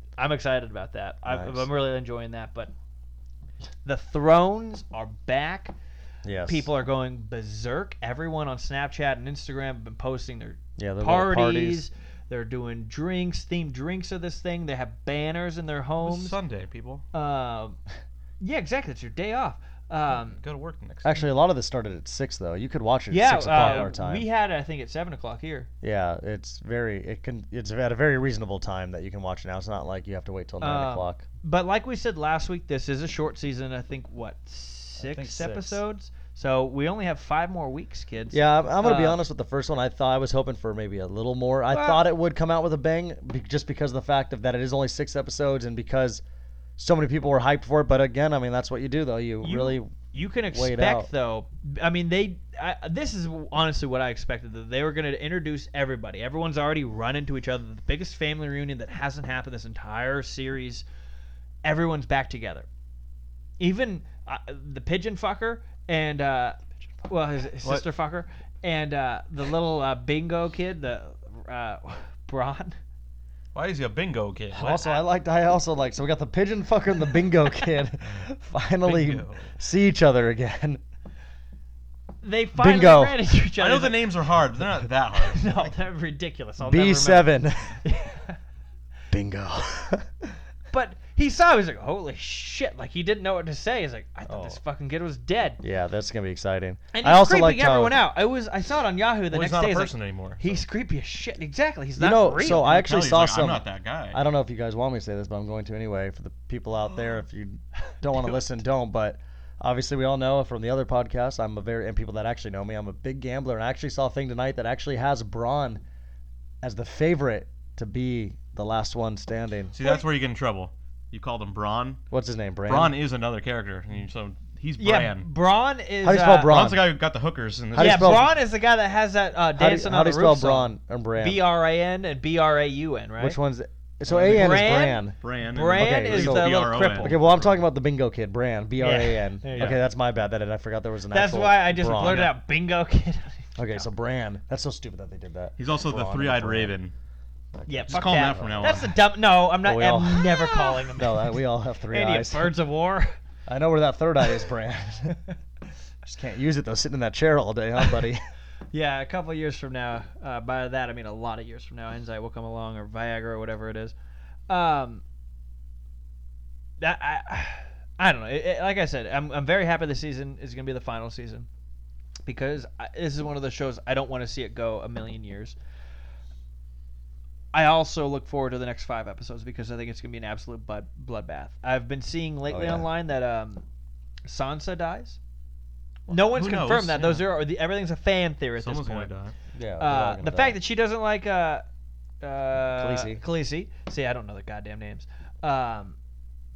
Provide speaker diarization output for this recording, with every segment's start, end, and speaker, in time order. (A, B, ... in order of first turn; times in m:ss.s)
0:00.2-0:02.7 A
0:01.2-0:01.7 B
0:03.8-0:05.7 A
0:06.2-0:06.7 B
0:06.4-0:16.4 A
0:10.8-0:11.8 B
0:16.0-0:17.0 C
0:17.1-0:17.8 A
0:18.4-0:20.4 A
0:20.3-0:21.2 C
0:21.0-0:24.2 B
0:23.1-0:25.7 A
0:23.5-0:23.9 C
0:25.8-0:31.2 B
0:30.6-0:39.2 A
0:35.0-0:35.8 B
0:38.3-0:46.2 B
0:41.7-0:42.0 A
0:46.8-0:49.9 B
0:49.4-1:00.8 A
0:50.5-0:51.1 B
1:01.6-1:02.7 A
1:03.6-1:12.8 A
1:13.5-1:14.8 C
1:14.5-1:20.8 B
1:18.8-1:19.5 C
1:22.2-1:24.1 A
1:22.5-1:23.2 B
1:23.5-1:25.7 C
1:25.2-1:28.4 A
1:26.6-1:27.8 B
1:29.1-1:30.3 B
1:30.7-1:35.6 A
1:34.3-1:34.6 B
1:35.6-1:38.0 B
1:36.9-1:42.7 A
1:39.3-1:40.6 C
1:42.0-1:55.8 B
1:42.6-1:44.2 C
1:56.6-1:59.8 B
1:59.7-2:02.0 C
2:02.1-2:03.0 B
2:02.6-2:05.3 C
2:04.8-2:06.6 A
2:06.0-2:06.9 B
2:06.4-2:08.2 C
2:07.7-2:08.3 B
2:07.8-2:13.4 A
2:09.6-2:11.4 B
2:13.2-2:22.3 B
2:14.1-2:17.6 C
2:14.1-2:17.2 A
2:18.8-2:19.8 A
2:19.5-2:19.8 C
2:21.1-2:23.8 A
2:21.8-2:22.4 C
2:23.6-2:26.8 B
2:25.6-2:26.9 C
2:27.5-2:28.8 B
2:27.7-2:31.3 A
2:27.9-2:29.0 C
2:29.6-2:32.6 B
2:31.9-2:33.2 A
2:33.4-2:35.2 B
2:36.0-2:38.2 B
2:38.7-2:43.9 A
2:44.5-2:45.0 A
2:46.8-2:51.5 A
2:52.2-2:55.6 A
2:57.5-3:03.6 A
3:02.5-3:02.9 B
3:04.2-3:05.2 A
3:06.1-3:09.1 A
3:06.1-3:07.3 C
3:08.6-3:09.3 C
3:09.5-3:10.6 B
3:09.8-3:11.6 A
3:12.2-3:16.0 A
3:12.6-3:13.2 B